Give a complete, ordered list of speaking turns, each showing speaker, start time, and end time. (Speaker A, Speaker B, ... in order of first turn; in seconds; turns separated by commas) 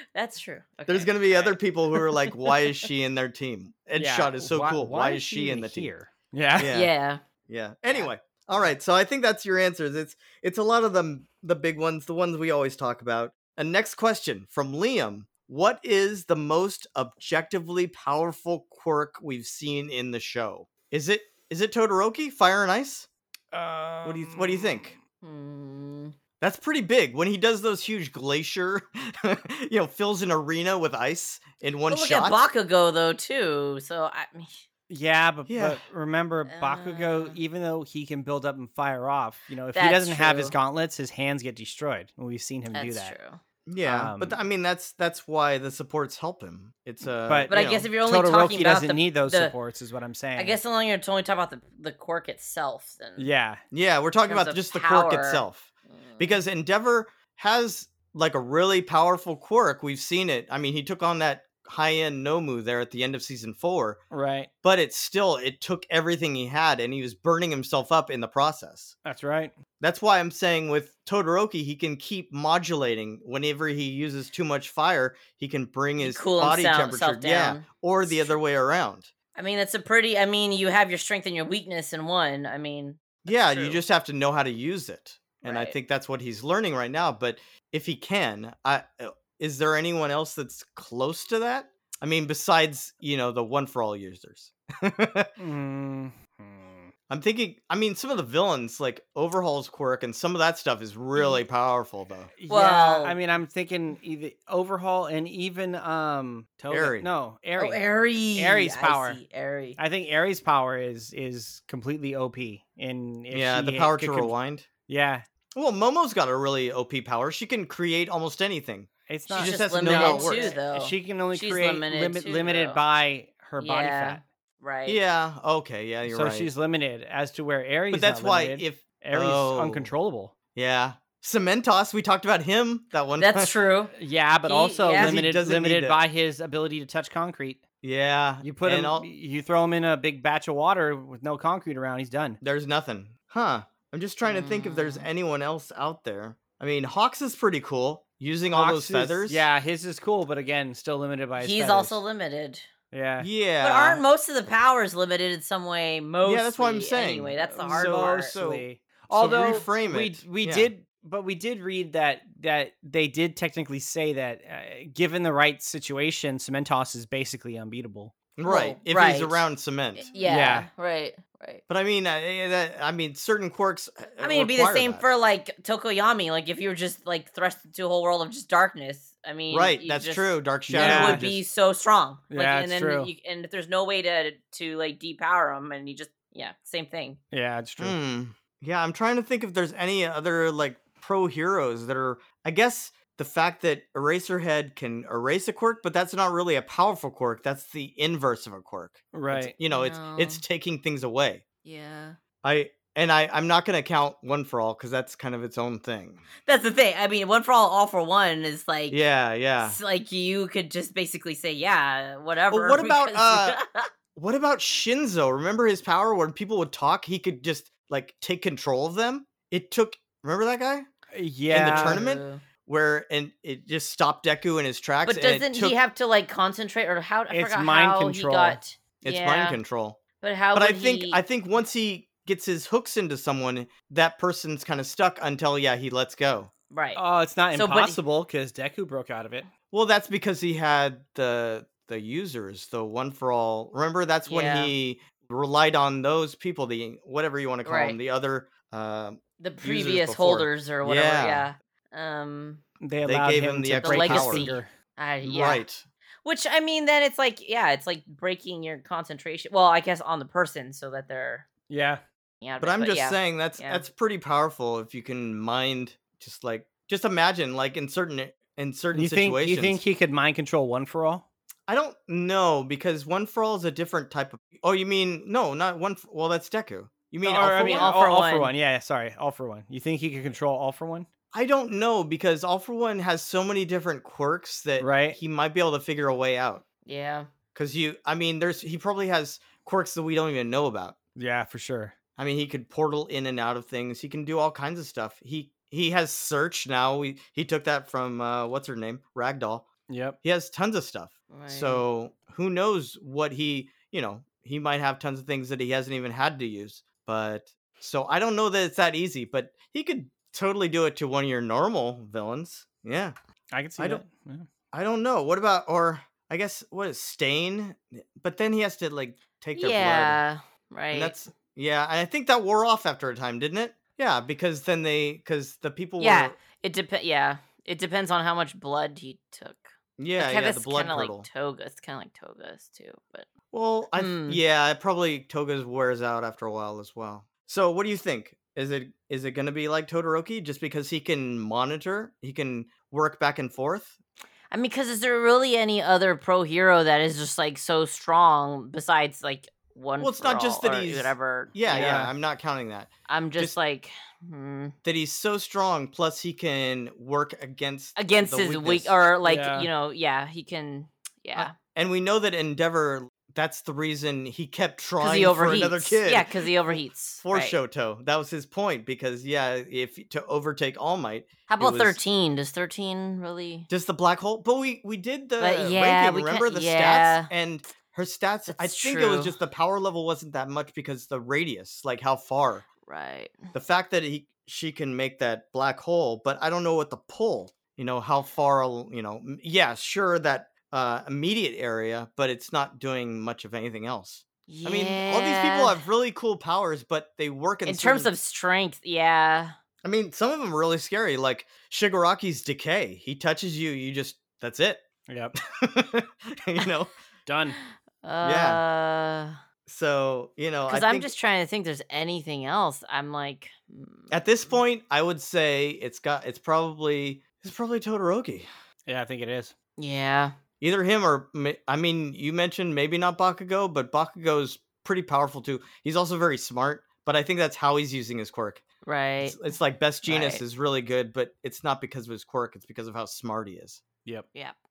Speaker A: 0.1-2.6, Speaker B: 0.9-5.9, Speaker C: 4.0-6.7, Speaker B: 6.6-6.9, Speaker A: 6.7-7.2, Speaker B: 7.5-23.1, Speaker C: 23.5-24.9, Speaker B: 24.0-24.9, Speaker A: 25.2-26.1, Speaker B: 26.4-32.4, Speaker A: 31.9-34.6, Speaker C: 34.9-43.1, Speaker B: 35.5-35.8, Speaker A: 36.5-37.4, Speaker A: 39.8-40.5, Speaker A: 42.7-43.4, Speaker B: 43.7-47.9, Speaker C: 43.8-44.4, Speaker C: 47.3-50.6, Speaker A: 47.5-49.6, Speaker A: 50.4-53.3, Speaker C: 53.2-53.6, Speaker B: 53.7-64.0, Speaker A: 54.3-56.4, Speaker C: 64.1-64.5, Speaker B: 64.6-69.0, Speaker C: 69.0-69.5, Speaker B: 69.8-79.1, Speaker A: 76.0-78.3, Speaker A: 79.3-83.8, Speaker B: 83.2-95.4, Speaker A: 85.4-85.8, Speaker C: 95.4-96.9, Speaker B: 97.1-102.3, Speaker A: 101.2-101.4, Speaker C: 102.4-107.8, Speaker A: 102.5-103.2, Speaker B: 106.7-107.1, Speaker A: 107.6-109.8, Speaker C: 108.3-109.2, Speaker C: 109.8-114.3, Speaker B: 113.3-114.7, Speaker C: 114.9-115.2, Speaker B: 115.5-120.6, Speaker C: 119.1-124.2, Speaker A: 119.3-122.8, Speaker A: 123.6-125.0, Speaker B: 124.9-126.5, Speaker C: 126.1-130.3, Speaker B: 127.9-129.9, Speaker B: 130.6-133.5, Speaker A: 133.2-135.2, Speaker C: 133.9-137.6, Speaker B: 135.0-136.0, Speaker B: 137.8-139.1, Speaker C: 138.4-142.4, Speaker B: 142.4-149.5, Speaker A: 144.2-145.1, Speaker C: 148.5-152.0, Speaker A: 151.4-152.6, Speaker C: 152.9-153.3, Speaker B: 153.2-154.0, Speaker A: 153.6-158.3, Speaker B: 156.2-160.7, Speaker C: 157.4-168.1, Speaker B: 168.4-170.1, Speaker A: 168.4-169.5, Speaker A: 170.0-171.6, Speaker C: 170.2-170.7, Speaker B: 171.7-175.1, Speaker A: 174.2-187.2, Speaker B: 179.5-181.4, Speaker C: 180.7-181.3, Speaker C: 182.3-183.1, Speaker C: 187.3-188.0, Speaker B: 187.8-201.4, Speaker C: 199.1-199.6, Speaker A: 199.7-200.4, Speaker A: 201.6-202.2, Speaker B: 202.4-206.2, Speaker A: 206.4-209.0, Speaker B: 208.9-209.8, Speaker A: 209.6-213.9, Speaker B: 212.5-213.6, Speaker B: 214.2-220.9, Speaker C: 221.1-222.0, Speaker B: 221.5-225.8, Speaker A: 221.6-222.4, Speaker A: 225.1-229.6, Speaker C: 227.3-228.6, Speaker B: 229.0-230.0, Speaker A: 230.2-231.2, Speaker B: 230.6-236.5, Speaker A: 236.7-237.0, Speaker C: 236.9-239.5, Speaker A: 237.5-238.0, Speaker B: 239.7-251.5, Speaker A: 244.3-244.7, Speaker A: 247.7-248.0, Speaker A: 249.4-252.6, Speaker C: 252.8-254.7, Speaker B: 253.1-254.5, Speaker A: 253.8-255.6, Speaker B: 255.2-255.8, Speaker A: 256.2-261.4, Speaker C: 261.7-262.0, Speaker A: 262.4-263.8, Speaker B: 262.6-269.8, Speaker C: 268.9-271.2, Speaker B: 271.7-277.9, Speaker C: 277.2-281.1, Speaker A: 277.5-278.5, Speaker B: 281.3-286.6, Speaker C: 284.8-285.2, Speaker A: 286.9-287.3, Speaker B: 287.6-291.0, Speaker C: 291.2-291.9, Speaker B: 292.2-299.7, Speaker C: 299.9-300.2, Speaker B: 300.2-313.1, Speaker A: 301.3-301.9, Speaker C: 313.5-314.5, Speaker B: 313.8-314.0, Speaker B: 314.7-320.2, Speaker A: 319.6-321.2, Speaker B: 320.9-326.4, Speaker A: 326.0-333.3, Speaker B: 330.0-331.3, Speaker B: 333.5-344.0, Speaker A: 333.9-334.4, Speaker A: 344.5-352.0, Speaker B: 350.0-353.6, Speaker C: 351.7-352.1, Speaker A: 353.1-354.8, Speaker B: 354.8-359.0, Speaker A: 358.0-361.5, Speaker C: 359.2-359.7, Speaker B: 361.4-366.5, Speaker A: 365.0-367.6, Speaker B: 367.2-372.0, Speaker A: 371.5-373.7, Speaker B: 373.7-382.7, Speaker A: 375.4-377.3, Speaker A: 378.5-379.3, Speaker A: 382.9-383.5, Speaker B: 383.5-398.1, Speaker A: 394.5-395.8, Speaker A: 397.6-399.6, Speaker B: 399.8-404.9, Speaker C: 405.1-405.4, Speaker B: 405.4-406.9, Speaker C: 407.3-407.6, Speaker A: 408.0-409.4, Speaker B: 408.2-408.6, Speaker B: 409.7-411.1, Speaker A: 410.7-414.6, Speaker B: 414.1-418.5, Speaker C: 418.9-419.5, Speaker A: 419.8-420.4, Speaker B: 420.6-428.7, Speaker A: 428.8-429.4, Speaker B: 429.2-433.8, Speaker A: 430.0-430.4